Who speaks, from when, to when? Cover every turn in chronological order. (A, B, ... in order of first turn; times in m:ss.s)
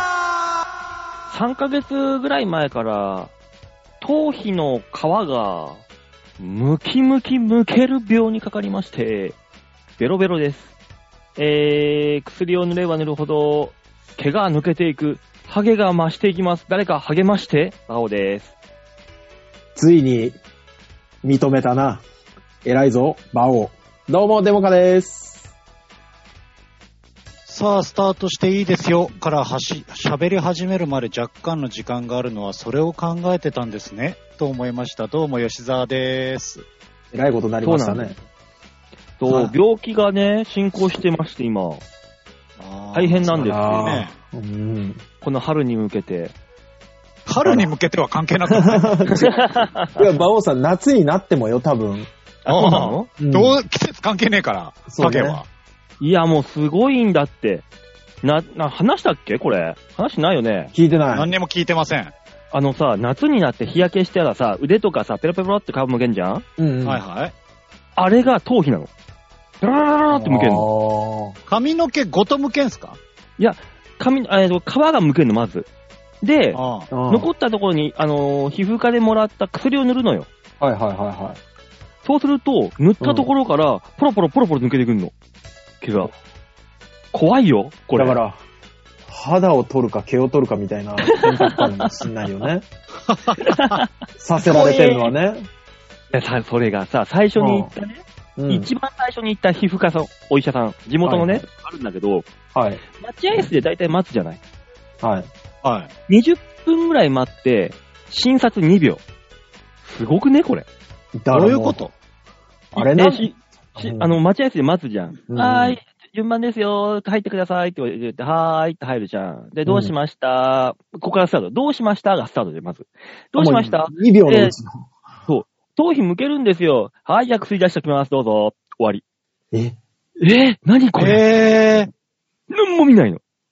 0:01.3-0:03.3 A
0:04.0-0:05.8 A
0:06.4-0:09.4 A
0:10.0-0:10.7 A
0:11.4-0:18.5 A
0:19.8-0:20.4 B
0:21.2-0:22.0 B
0:22.6-0:25.4 B
0:27.5-0:36.6 C
0:37.1-0:38.2 B
0:37.6-0:38.1 A
0:39.2-0:41.8 A
0:42.6-0:44.1 C
0:42.9-0:44.0 A
0:43.4-0:45.0 B
0:45.2-0:46.3 A
0:47.3-0:49.0 C
0:47.4-0:47.7 B
0:48.5-0:49.4 B
0:49.1-0:50.0 A
0:49.9-0:52.1 B
0:52.4-0:53.1 A
0:52.5-0:55.5 C
0:53.2-0:53.6 B
0:54.9-0:55.4 B
0:56.0-0:57.6 A
0:58.2-1:00.7 A
1:00.7-1:01.3 B
1:01.1-1:02.1 C
1:02.5-1:06.4 A
1:06.6-1:07.0 B
1:06.8-1:07.3 C
1:08.0-1:08.9 A
1:09.6-1:10.7 A
1:10.1-1:11.3 B
1:11.5-1:13.0 C
1:13.4-1:15.7 A
1:16.2-1:20.3 A
1:16.5-1:16.9 C
1:16.9-1:17.3 B
1:20.6-1:21.4 B
1:22.0-1:25.1 A
1:23.0-1:23.3 B
1:25.8-1:26.1 A
1:27.1-1:28.2 A
1:27.9-1:28.4 B
1:29.1-1:32.6 B
1:31.0-1:32.0 A
1:33.1-1:33.8 C
1:33.4-1:33.8 A
1:34.2-1:35.5 B
1:34.4-1:35.1 A
1:36.1-1:42.3 A
1:37.4-1:37.7 B
1:38.4-1:38.7 B
1:41.0-1:41.4 B
1:42.5-1:42.8 B
1:42.9-1:44.4 A
1:45.0-1:45.3 B
1:45.6-1:45.9 C
1:46.1-1:49.0 A
1:49.8-1:50.6 A
1:51.2-1:51.8 B
1:51.3-1:51.9 C
1:52.7-1:54.2 B
1:52.7-2:04.5 A
1:55.3-1:55.8 B
1:59.6-1:59.9 B
2:03.4-2:04.9 B
2:05.3-2:09.0 A
2:09.5-2:09.8 B
2:10.2-2:11.2 A
2:11.0-2:11.9 C
2:12.5-2:13.2 A